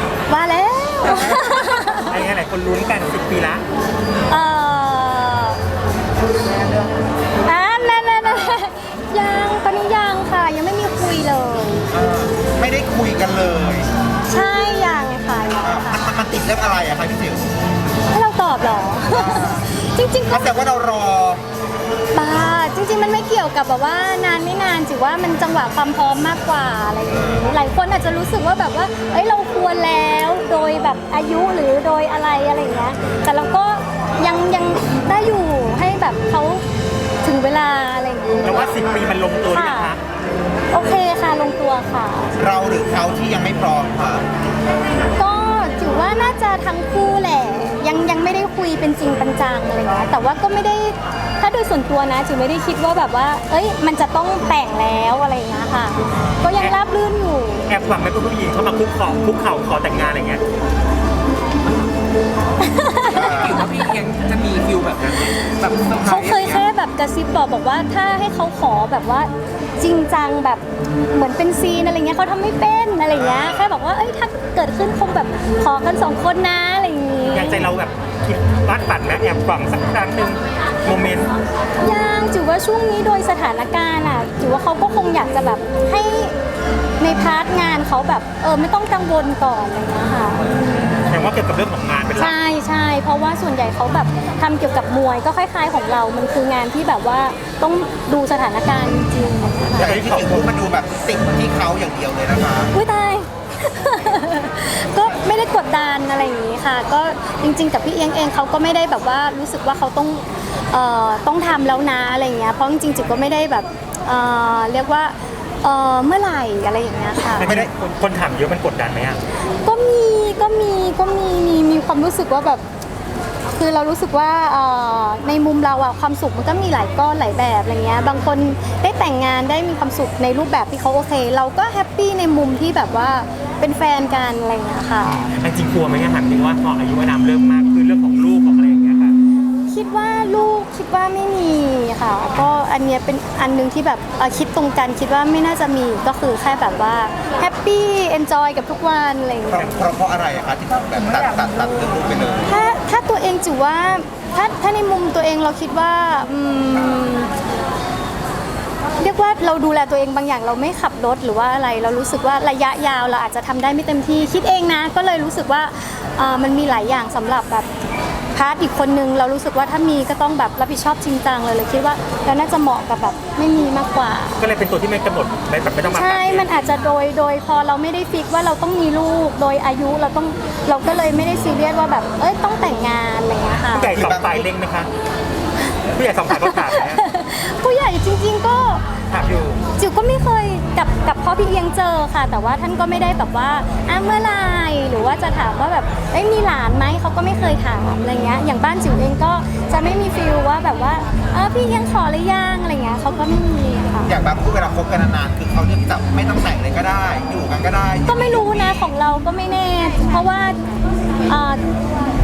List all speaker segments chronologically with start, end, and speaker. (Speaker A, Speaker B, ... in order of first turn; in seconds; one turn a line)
Speaker A: 0.3-2.2
Speaker B: 2.1-3.6
Speaker A: 4.3-5.6
Speaker A: 7.4-11.8
Speaker C: 11.9-13.9
Speaker A: 14.3-16.1
Speaker C: 15.6-17.4
Speaker A: 18.1-20.5
Speaker C: 19.0-19.6
Speaker C: 20.3-21.4
Speaker A: 22.1-36.6
Speaker C: 27.1-27.4
Speaker A: 37.2-38.8
Speaker B: 38.4-40.0
Speaker A: 39.5-39.9
Speaker A: 40.7-42.3
Speaker C: 42.4-44.2
Speaker A: 45.1-57.7
Speaker C: 56.0-56.5
Speaker B: 57.7-60.4
Speaker A: 62.6-63.5
Speaker C: 63.0-63.7
Speaker D: 63.2-66.6
Speaker A: 66.0-77.7
Speaker C: 73.1-73.7
Speaker B: 77.3-81.3
Speaker A: 81.8-86.3
Speaker A: 87.0-91.0
Speaker B: 91.0-92.4
Speaker A: 92.1-99.9
Speaker C: 99.7-102.7
Speaker B: 99.8-100.5
Speaker A: 102.7-117.5
Speaker B: 117.4-119.2
Speaker A: 119.6-122.6
Speaker A: 123.5-135.1
Speaker B: 135.0-139.2
Speaker A: 139.7-149.8
Speaker C: 149.5-152.5
Speaker A: 152.4-157.3
Speaker A: 159.0-167.7
Speaker A: 168.3-174.4
Speaker B: 174.4-176.5
Speaker A: 175.9-184.0
Speaker B: 183.7-184.9
Speaker C: 183.9-184.5
Speaker B: 185.9-187.0
Speaker A: 186.3-188.9
Speaker B: 189.1-189.6
Speaker A: 189.8-204.1
Speaker C: 204.1-208.9
Speaker A: 208.1-210.7
Speaker A: 211.3-211.6